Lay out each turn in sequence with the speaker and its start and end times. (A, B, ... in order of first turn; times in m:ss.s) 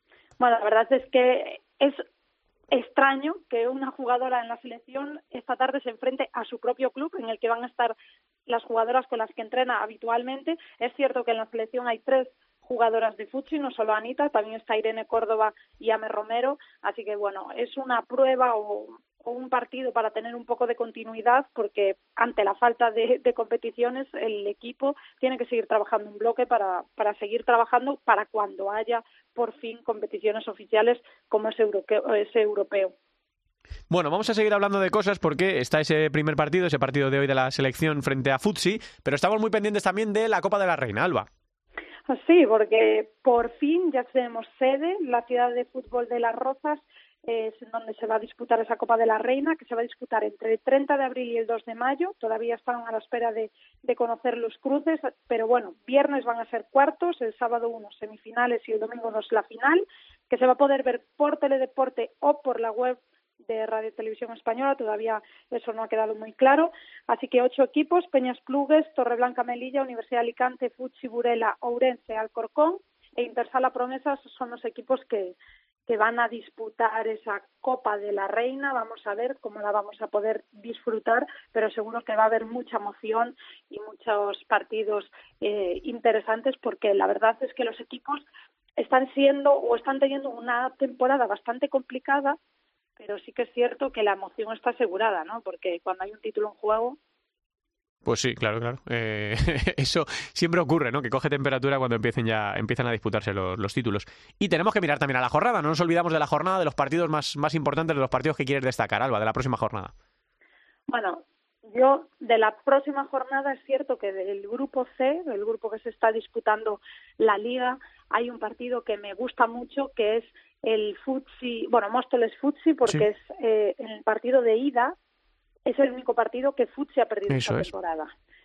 0:00.4-0:02.0 A
0:02.7-0:07.9 A
0:08.5-0:32.9 A
0:33.9-0:41.3 B
0:42.1-1:28.2 A
1:28.8-1:32.4 A
1:33.0-1:37.0 A
1:38.0-1:49.9 B
1:50.9-2:05.0 A
2:05.6-2:08.1 A
2:07.3-2:07.7 B